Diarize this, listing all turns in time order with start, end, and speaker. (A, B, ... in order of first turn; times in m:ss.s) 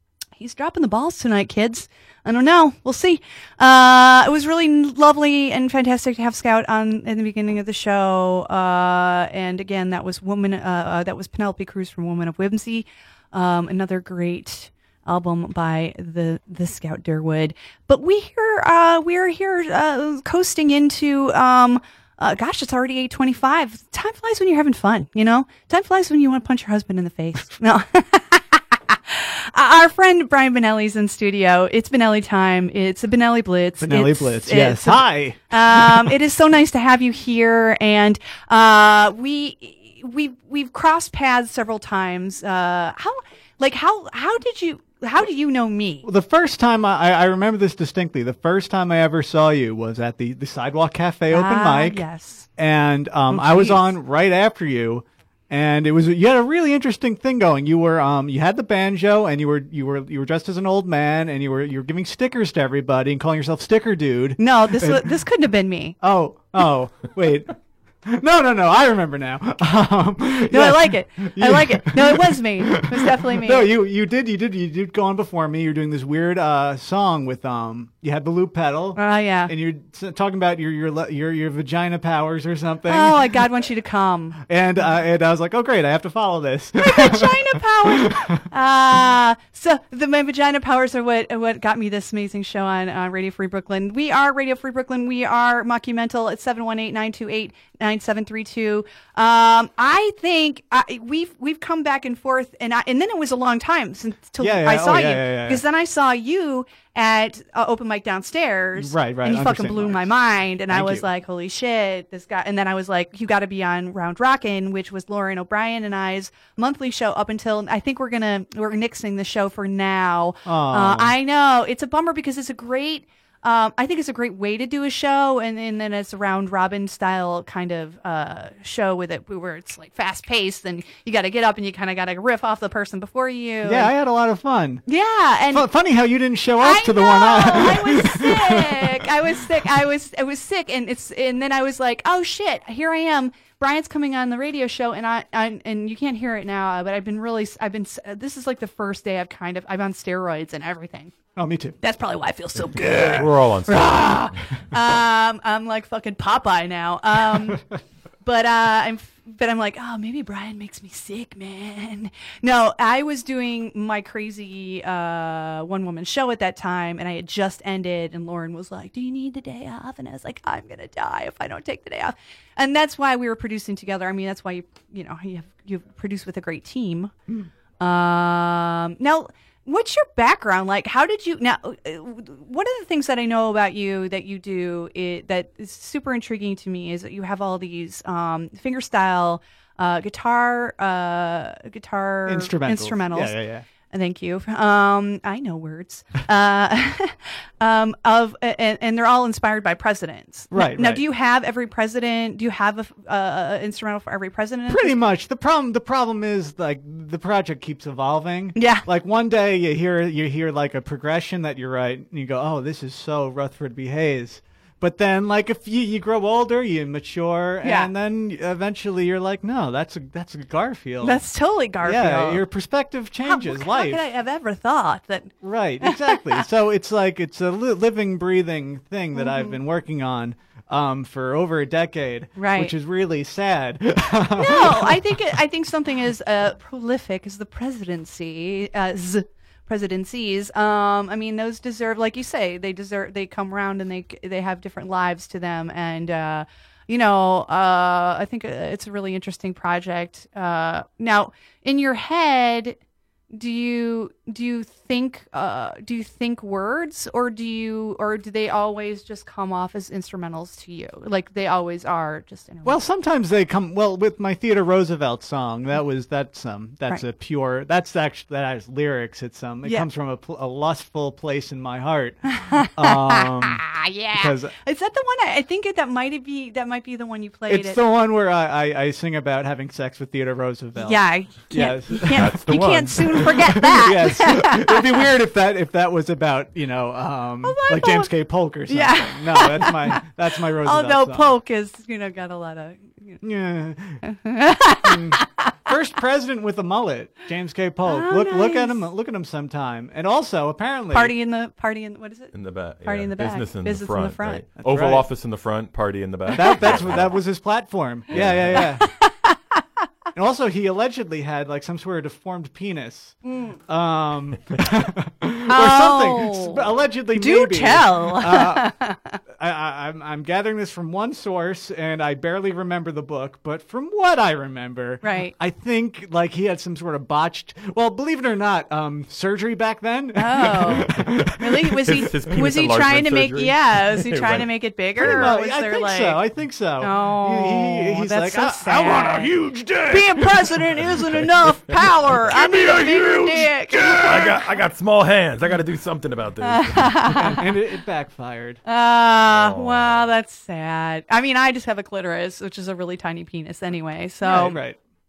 0:00.4-0:46.1 A
0:33.8-0:36.1 B
0:46.0-0:52.0 B
0:51.3-0:52.5 A
0:52.6-1:05.1 B
0:53.3-0:53.9 A
1:04.4-1:06.0 A
1:06.0-1:07.5 B
1:08.0-1:23.4 B
1:10.5-1:13.7 A
1:19.0-1:19.5 A
1:22.9-1:24.4 A
1:24.4-1:28.4 B
1:26.8-2:13.9 A
1:44.4-1:45.6 B
1:48.8-1:50.1 B
1:50.7-1:51.1 B
2:00.4-2:01.2 B
2:13.6-2:14.8 B
2:14.9-2:15.7 A
2:15.5-2:19.1 B
2:16.6-2:31.1 A
2:31.4-2:31.8 B
2:31.8-2:33.2 A
2:32.7-2:34.4 B
2:33.0-2:34.2 C
2:34.7-2:37.6 A
2:38.2-2:57.1 A
2:57.8-3:25.0 A
3:12.2-3:13.7 B
3:20.5-3:21.0 B
3:24.7-3:41.2 B
3:28.6-3:28.9 A
3:37.6-3:37.9 A
3:41.0-3:42.4 A
3:41.8-3:44.0 B
3:43.2-3:46.4 A
3:45.4-3:55.0 B
3:49.1-3:49.6 A
3:52.3-3:52.7 A
3:54.3-4:12.8 A
4:13.3-4:22.8 A
4:22.6-4:32.2 B
4:32.2-4:37.8 A
4:32.8-4:34.5 B
4:37.5-4:51.3 B
4:40.8-4:45.1 A
4:41.9-4:43.4 C
4:47.4-4:48.1 A
4:48.7-4:53.2 A
4:53.2-4:54.0 B
4:54.0-4:55.2 A
4:54.8-5:01.1 B
4:57.8-4:58.9 A
5:00.9-5:04.5 A
5:02.3-5:07.2 C
5:04.6-5:05.1 B
5:06.3-5:08.8 B
5:06.4-5:06.7 A
5:08.1-5:08.6 C
5:08.8-5:09.3 A
5:10.1-5:18.7 B
5:13.2-5:13.6 A
5:15.5-5:19.2 A
5:19.3-5:32.1 B
5:25.0-5:25.3 A
5:30.1-5:36.2 A
5:31.9-5:35.3 C
5:35.0-5:40.8 B
5:36.8-5:39.3 A
5:39.9-5:44.3 A
5:41.0-5:41.2 C
5:43.2-5:43.5 B
5:43.9-5:47.2 C
5:46.4-5:47.6 A
5:47.1-5:48.6 B
5:48.6-5:54.6 A
5:49.2-5:50.1 C
5:54.2-5:54.8 B